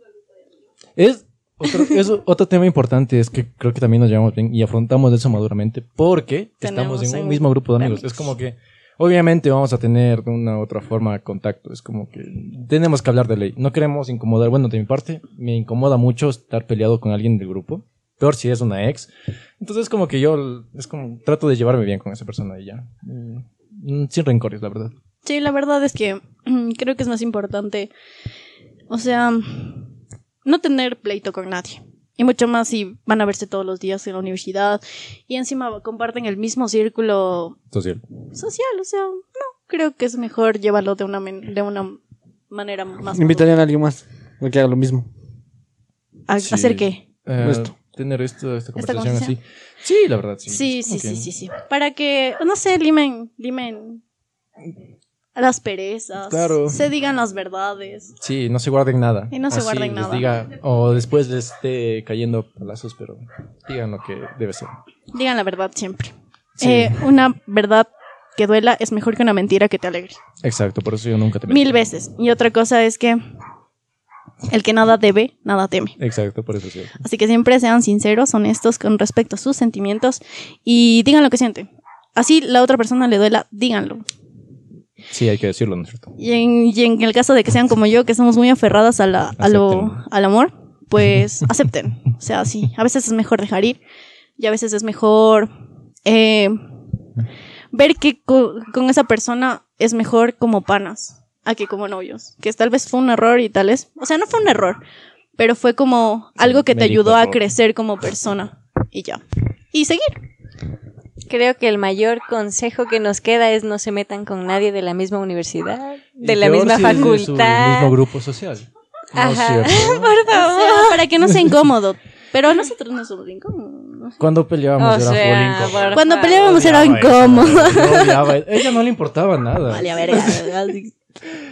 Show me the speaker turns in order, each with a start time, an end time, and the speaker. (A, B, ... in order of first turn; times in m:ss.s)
0:01.0-0:24.9 A
0:06.6-0:08.3 B
0:25.2-0:27.9 B
0:28.9-0:29.9 B
0:30.4-0:37.6 B
0:37.7-0:38.0 A
0:38.4-0:43.5 B
0:43.1-0:45.1 C
0:46.3-0:47.0 B
0:46.4-0:51.3 A
0:47.4-0:47.7 C
0:48.8-0:49.4 B
0:50.5-0:54.0 B
0:55.4-0:58.1 B
0:56.2-0:56.8 A
0:58.2-1:04.7 A
0:59.3-1:00.3 B
1:05.1-1:10.2 B
1:06.6-1:07.0 A
1:10.4-1:11.8 A
1:11.5-1:13.2 B
1:14.5-1:16.0 B
1:16.0-1:17.0 A
1:17.0-1:24.0 B
1:25.1-1:26.1 A
1:26.2-1:33.8 B
1:29.4-1:30.0 A
1:34.4-1:35.5 B
1:36.1-1:36.6 B
1:37.7-1:44.8 B
1:45.4-1:49.2 B
1:46.4-1:47.4 A
1:49.7-1:50.2 B
1:51.3-1:58.0 D
1:56.2-2:00.1 A
1:59.1-2:01.1 D
2:00.2-2:04.2 B
2:04.2-2:10.5 A
2:04.8-2:06.5 D
2:05.9-2:08.4 B
2:09.7-2:11.0 B